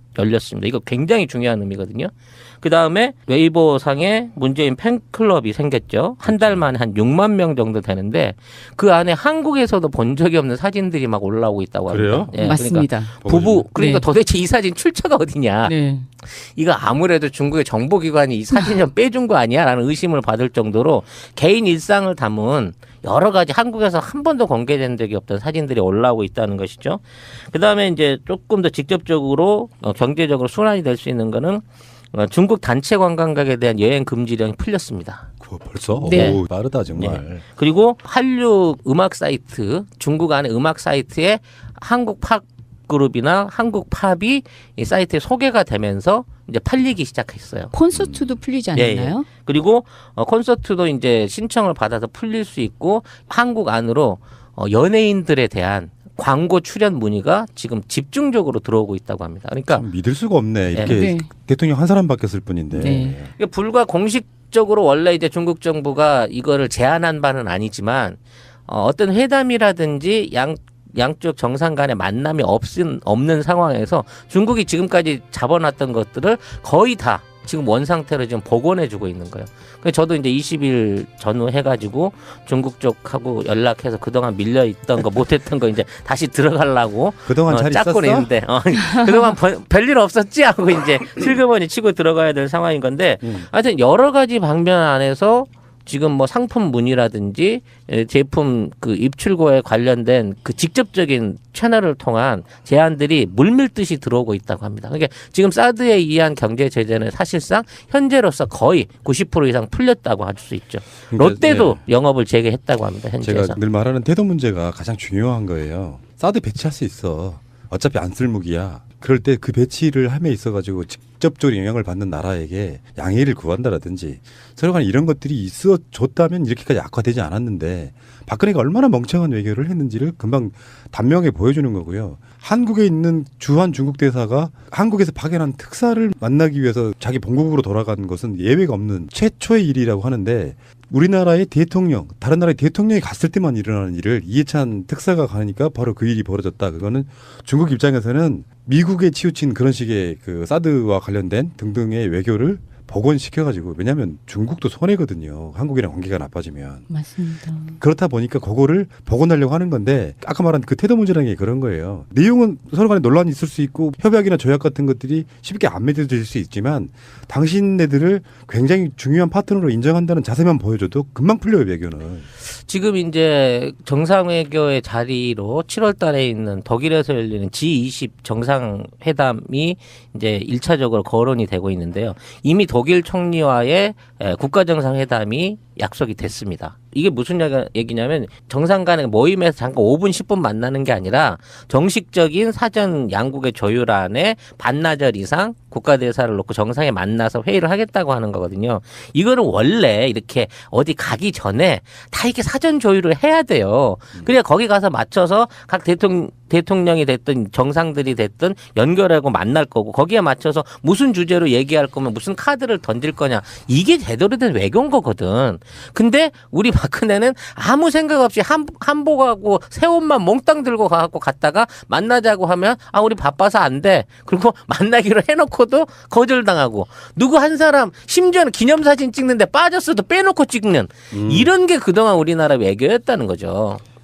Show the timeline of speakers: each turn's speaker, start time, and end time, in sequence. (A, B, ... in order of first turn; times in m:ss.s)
0:00.2-0:15.8 A
0:06.3-0:06.6 B
0:11.9-0:12.3 B
0:12.4-0:13.1 C
0:13.2-0:13.7 B
0:13.8-0:14.0 C
0:15.6-0:16.1 C
0:16.3-0:35.3 A
0:35.4-0:37.4 B
0:36.0-0:36.4 C
0:36.1-0:47.7 A
0:47.7-0:49.3 C
0:48.7-0:59.9 A
0:59.7-1:03.3 B
1:00.7-1:01.0 A
1:00.8-1:01.3 C
1:02.7-1:03.2 C
1:03.4-1:53.6 A
1:27.3-1:28.3 B
1:51.1-1:51.8 B
1:53.2-2:36.9 B
2:36.9-2:37.8 C
2:37.8-2:52.3 B
2:52.7-3:53.8 A
3:51.1-3:51.5 B